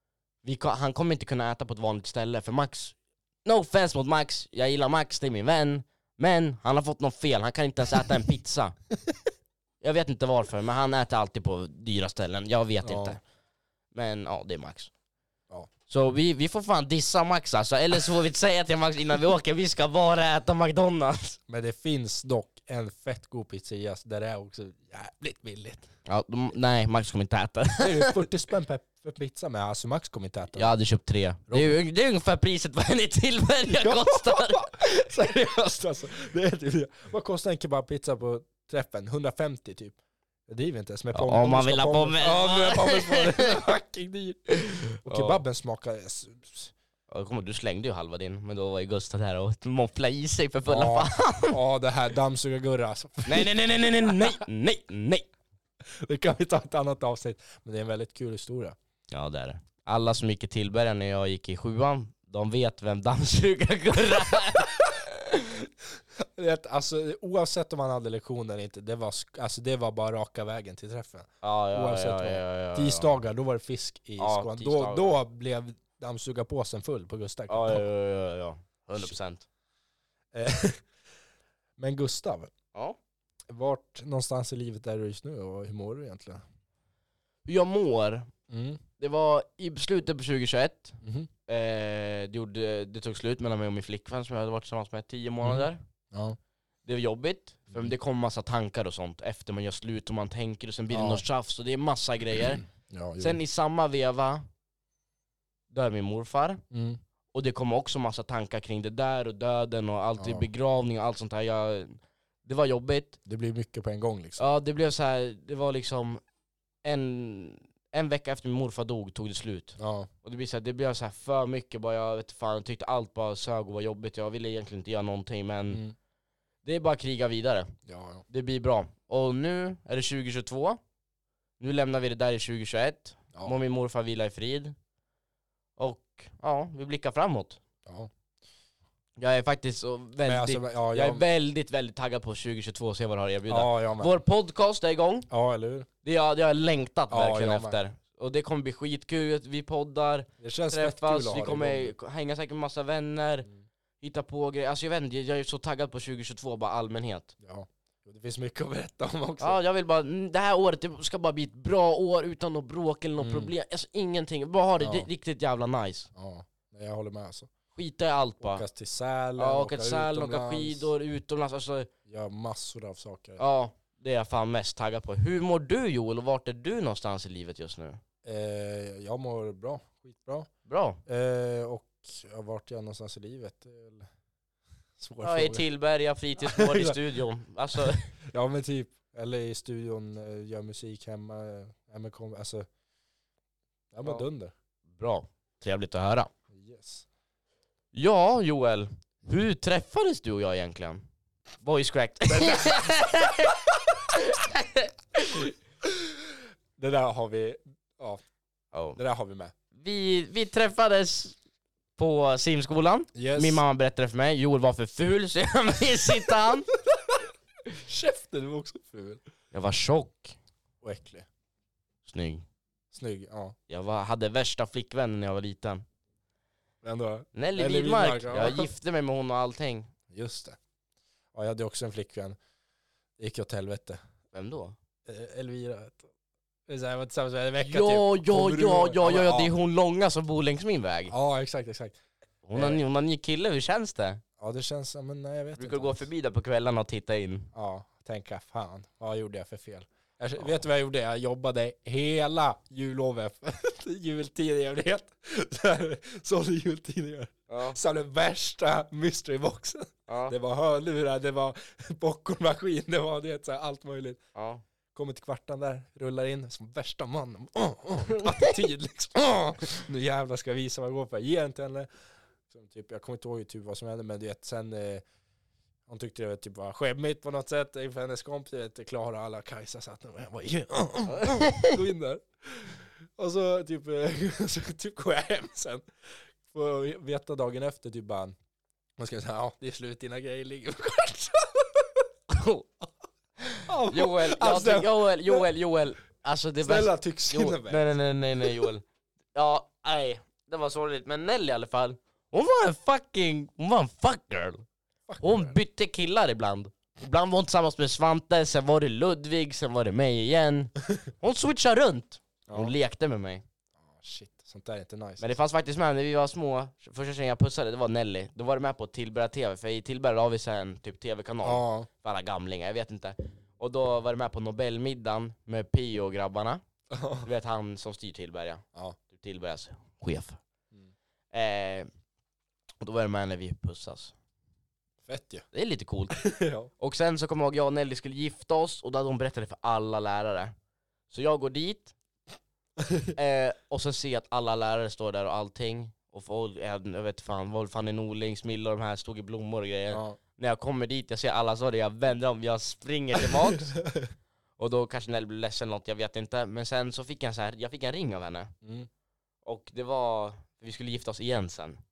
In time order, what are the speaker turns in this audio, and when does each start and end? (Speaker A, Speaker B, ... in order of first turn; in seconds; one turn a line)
Speaker A: 0.4-8.7
Speaker A: 9.8-13.2
Speaker B: 12.8-13.2
Speaker A: 13.9-14.9
Speaker A: 15.9-21.4
Speaker B: 21.5-25.9
Speaker A: 26.1-28.1
Speaker B: 27.8-30.8
Speaker A: 30.5-34.6
Speaker B: 31.5-31.7
Speaker B: 33.7-44.5
Speaker A: 41.1-43.6
Speaker A: 44.5-45.4
Speaker B: 45.0-46.7
Speaker A: 47.1-51.6
Speaker B: 50.7-54.4
Speaker A: 53.2-55.3
Speaker B: 55.9-58.8
Speaker A: 59.1-65.0
Speaker B: 65.3-65.7
Speaker B: 66.2-77.8
Speaker A: 71.4-73.1
Speaker A: 74.2-75.2
Speaker A: 77.5-79.4
Speaker B: 80.3-80.8
Speaker B: 81.8-82.5
Speaker B: 83.5-86.4
Speaker A: 87.4-88.3
Speaker B: 88.5-88.8
Speaker A: 89.0-95.8
Speaker B: 91.0-91.3
Speaker B: 95.4-96.4
Speaker A: 96.8-102.6
Speaker B: 100.9-101.2
Speaker B: 102.8-103.4
Speaker A: 103.2-104.4
Speaker A: 105.7-106.6
Speaker B: 106.7-107.0
Speaker A: 107.3-113.2
Speaker B: 110.2-110.5
Speaker B: 113.2-114.4
Speaker A: 114.4-116.2
Speaker A: 116.8-125.8
Speaker B: 119.8-120.1
Speaker B: 125.7-125.9
Speaker A: 126.6-127.7
Speaker B: 127.8-128.2
Speaker A: 128.3-130.8
Speaker A: 131.6-134.7
Speaker A: 135.8-137.6
Speaker B: 137.8-138.1
Speaker A: 139.2-145.3
Speaker B: 140.2-141.2
Speaker B: 143.5-144.1
Speaker B: 145.3-145.9
Speaker A: 146.0-153.5
Speaker B: 147.1-147.8
Speaker B: 150.4-151.9
Speaker A: 154.0-157.3
Speaker B: 157.4-159.6
Speaker A: 159.4-166.1
Speaker B: 163.2-163.5
Speaker B: 164.8-165.1
Speaker B: 166.1-167.5
Speaker A: 167.7-168.6
Speaker B: 168.4-170.9
Speaker A: 169.4-171.9
Speaker B: 172.1-173.4
Speaker A: 173.4-178.0
Speaker B: 178.2-180.5
Speaker A: 180.7-181.0
Speaker B: 181.1-184.1
Speaker B: 185.0-185.6
Speaker A: 185.2-188.1
Speaker B: 186.4-187.0
Speaker B: 187.7-192.7
Speaker B: 193.9-194.5
Speaker A: 194.9-196.3
Speaker B: 196.5-197.1
Speaker A: 197.9-201.0
Speaker A: 201.6-205.5
Speaker B: 202.3-203.5
Speaker B: 205.8-206.1
Speaker B: 206.8-208.2
Speaker A: 208.7-209.0
Speaker B: 208.9-209.5
Speaker A: 209.7-211.3
Speaker A: 212.0-216.7
Speaker B: 213.1-213.6
Speaker B: 216.9-219.2
Speaker A: 219.5-220.4
Speaker B: 220.8-221.2
Speaker A: 222.1-222.4
Speaker B: 222.9-223.5
Speaker A: 223.7-225.8
Speaker B: 226.8-228.7
Speaker A: 227.3-229.9
Speaker B: 230.1-230.6
Speaker B: 231.3-232.4
Speaker B: 233.2-234.0
Speaker A: 234.3-234.8
Speaker B: 235.1-236.1
Speaker B: 236.7-239.5
Speaker A: 237.6-241.1
Speaker B: 241.1-242.0
Speaker A: 242.4-244.2
Speaker B: 242.5-242.8
Speaker B: 244.4-246.1
Speaker A: 245.6-247.5
Speaker B: 247.5-264.2
Speaker A: 257.5-257.8
Speaker A: 260.1-260.4
Speaker A: 264.3-264.6
Speaker B: 264.9-271.9
Speaker B: 272.5-275.0
Speaker B: 275.9-285.9
Speaker A: 281.1-281.7
Speaker B: 286.4-288.3
Speaker B: 289.0-292.1
Speaker A: 292.3-292.7
Speaker A: 293.5-304.6
Speaker B: 293.6-295.5
Speaker B: 296.6-297.9
Speaker B: 305.1-305.5
Speaker A: 305.2-313.4
Speaker B: 312.5-312.7
Speaker B: 313.8-315.3
Speaker A: 315.2-326.6
Speaker B: 321.4-321.9
Speaker B: 326.9-327.3
Speaker A: 327.2-330.4
Speaker A: 331.3-331.9
Speaker A: 332.8-334.1
Speaker B: 335.0-335.4
Speaker A: 335.5-336.1
Speaker B: 336.1-336.7
Speaker A: 336.8-340.5
Speaker A: 341.1-341.9
Speaker B: 342.8-343.1
Speaker A: 343.1-353.7
Speaker B: 349.9-350.2
Speaker B: 353.2-354.1
Speaker A: 354.6-358.5
Speaker B: 358.6-358.9
Speaker A: 359.4-361.8